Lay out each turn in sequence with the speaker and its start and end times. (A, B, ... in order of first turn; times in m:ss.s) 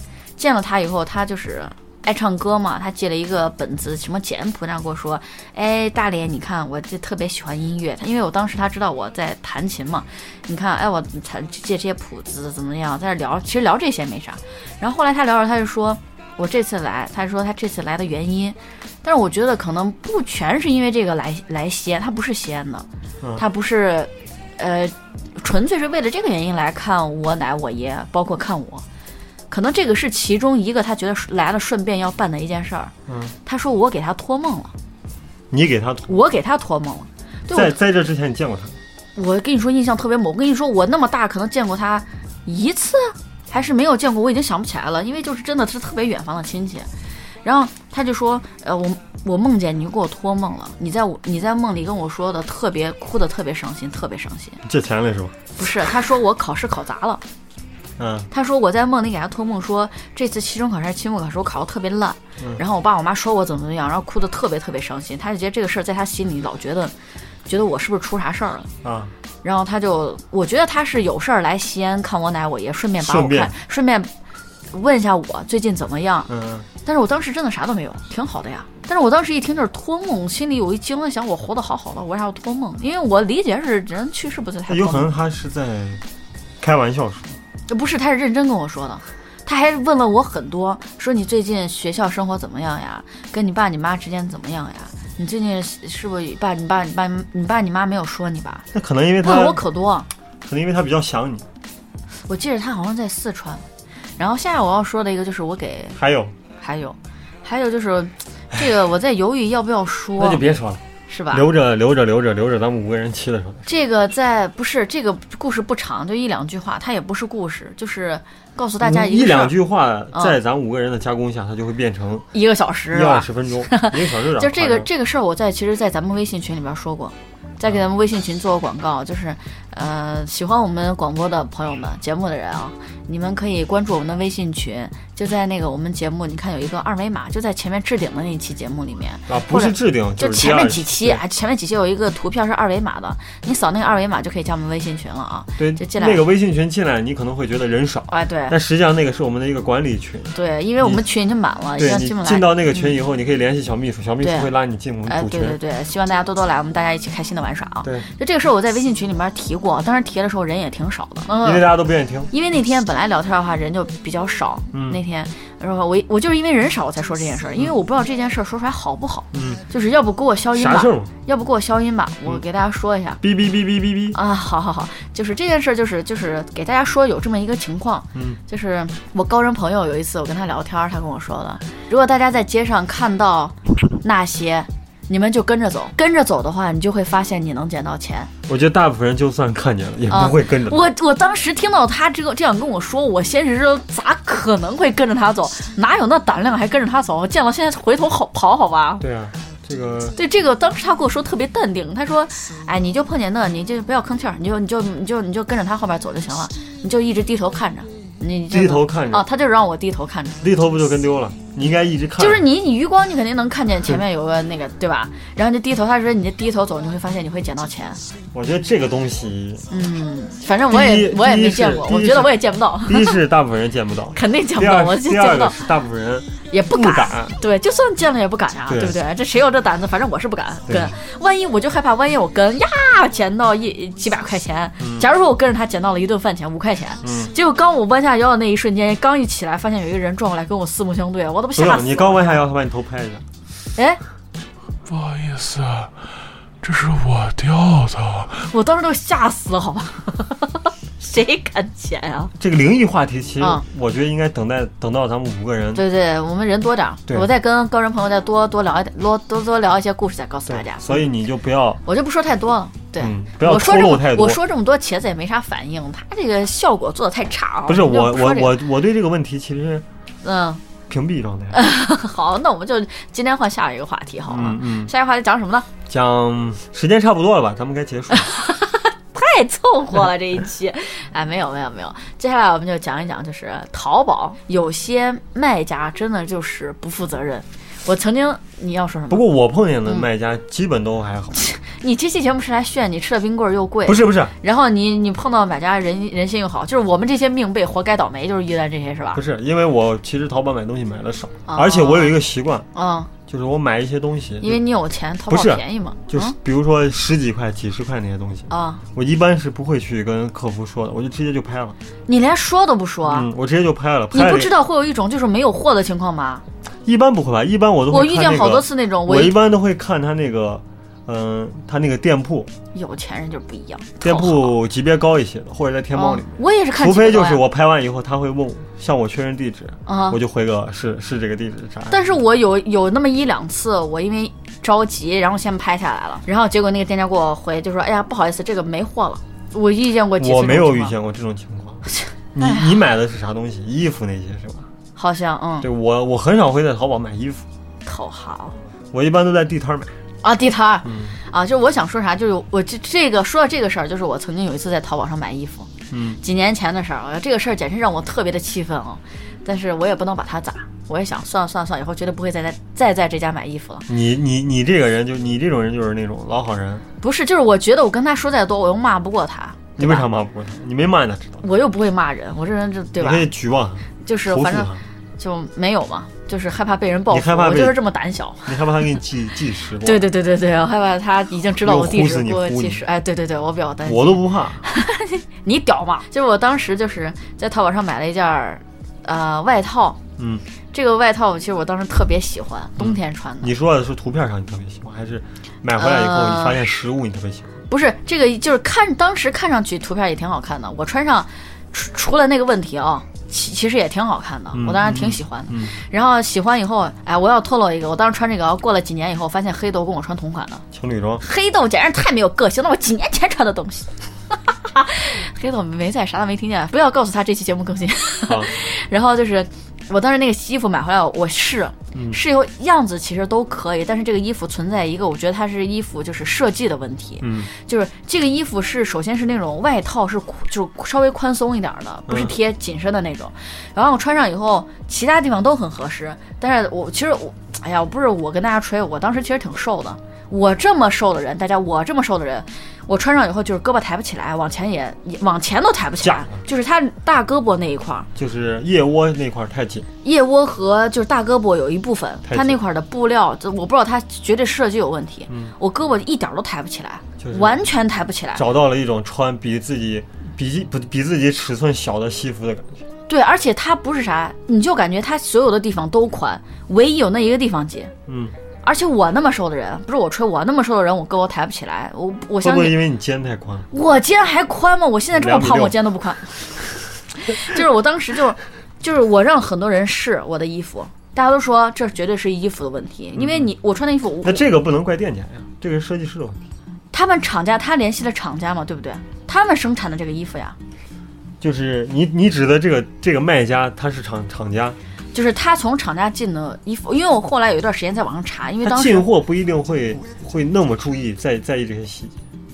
0:00.4-0:22.9 A
0:23.4-0:28.8 A
0:29.5-0:32.9 A
0:33.1-0:33.4 B
0:33.4-0:34.7 A
0:35.5-0:36.2 B
0:36.1-0:37.7 A
0:37.5-0:38.8 B
0:39.2-0:46.9 A
0:47.4-0:54.6 A
0:54.6-0:55.4 B
0:55.6-0:57.2 A
0:58.0-0:58.3 B
0:58.3-1:06.9 A
1:07.5-1:08.7 A
1:08.8-1:09.1 B
1:09.4-1:14.1 A
1:13.0-1:13.6 B
1:14.7-1:16.3 A
1:16.3-1:16.7 B
1:16.8-1:25.1 A
1:24.7-1:26.0 B
1:26.6-1:27.4 B
1:27.7-1:38.7 A
1:38.7-1:39.6 B
1:39.2-1:40.1 A
1:40.4-1:41.5 B
1:42.3-1:43.7 A
1:44.2-1:46.0 A
1:46.0-1:46.3 B
1:46.6-1:50.4 A
1:50.2-1:53.7 B
1:51.1-1:51.5 A
1:53.7-1:59.6 A
1:58.8-2:02.3 B
2:02.3-2:26.2 A
2:02.9-2:04.9 B
2:19.3-2:21.2 B
2:25.6-2:31.0 B
2:28.1-2:28.6 A
2:30.3-2:32.9 A
2:31.8-2:35.6 B
2:34.2-2:34.5 A
2:35.1-2:41.7 A
2:41.4-2:42.3 B
2:42.3-2:53.2 A
2:44.7-2:45.0 B
2:49.3-2:49.6 B
2:50.6-2:51.1 B
2:53.2-2:54.2 B
2:54.1-3:08.3 A
2:58.1-2:58.4 B
3:08.5-3:10.9 B
3:10.1-3:19.0 A
3:19.0-3:20.2 B
3:20.2-3:30.4 A
3:28.5-3:29.3 B
3:30.4-3:32.5 B
3:32.2-3:38.0 A
3:38.3-3:39.6 B
3:39.7-3:43.2 A
3:40.7-3:47.4 B
3:44.2-3:45.6 A
3:46.5-4:02.4 A
3:48.7-3:49.0 B
3:50.7-3:51.0 B
3:54.8-3:55.1 B
3:57.0-3:57.3 B
4:01.6-4:03.2 B
4:04.9-4:05.9 C
4:06.6-4:08.0 C
4:08.3-4:12.3 A
4:12.4-4:15.8 B
4:15.8-4:21.0 A
4:20.5-4:21.8 B
4:21.8-4:28.6 A
4:23.0-4:24.4 B
4:27.7-4:29.8 B
4:30.2-4:30.6 A
4:30.9-4:31.6 B
4:31.5-4:35.7 A
4:34.3-4:34.9 B
4:35.9-4:38.3 B
4:38.1-4:49.3 A
4:49.1-4:51.4 B
4:51.3-4:59.2 A
4:53.9-4:54.3 B
4:59.1-5:02.7 B
5:01.5-5:02.2 A
5:02.7-5:03.1 A
5:03.3-5:04.6 B
5:04.4-5:06.4 A
5:05.3-5:11.8 B
5:08.5-5:08.8 A
5:12.1-5:13.3 A
5:13.1-5:14.5 B
5:14.1-5:16.4 A
5:16.8-5:22.5 B
5:17.9-5:19.4 A
5:22.7-5:24.5 A
5:24.0-5:32.1 B
5:26.0-5:27.4 A
5:29.9-5:30.2 A
5:31.9-5:41.0 A
5:40.2-5:44.7 B
5:41.9-5:42.7 A
5:45.0-5:45.7 A
5:45.6-5:47.5 B
5:47.8-5:48.6 A
5:48.9-5:50.0 B
5:50.2-5:55.7 A
5:50.8-5:51.2 B
5:55.9-5:56.2 B
5:56.2-6:03.9 A
6:03.9-6:06.8 B
6:07.0-6:10.0 A
6:09.8-6:11.4 B
6:11.4-6:13.3 A
6:13.0-6:14.8 B
6:14.0-6:18.6 A
6:17.1-6:17.8 B
6:18.5-6:20.1 B
6:19.8-6:30.0 A
6:21.6-6:22.8 B
6:23.9-6:24.6 B
6:30.2-6:30.4 B
6:30.7-6:33.5 A
6:32.8-6:37.5 B
6:35.8-6:36.6 A
6:37.7-6:50.6 A
6:44.5-6:45.8 B
6:50.7-6:51.2 B
6:51.2-7:28.1 A
6:58.3-6:58.5 B
7:01.9-7:02.2 B
7:07.2-7:07.5 B
7:12.1-7:12.3 B
7:26.0-7:26.4 B
7:28.2-7:29.9 B
7:30.0-7:38.5 A
7:32.3-7:32.6 B
7:35.3-7:35.5 B
7:37.2-7:37.6 B
7:38.4-7:42.8 B
7:43.1-7:47.9 A
7:48.1-7:48.3 B
7:48.6-7:52.8 A
7:52.4-7:53.7 B
7:53.7-7:56.6 A
7:55.1-7:55.8 B
7:57.1-8:04.4 A
8:03.2-8:03.5 B
8:04.2-8:06.4 B
8:06.9-8:10.6 A
8:11.4-8:14.8 B
8:15.1-8:19.1 A
8:18.6-8:22.2 B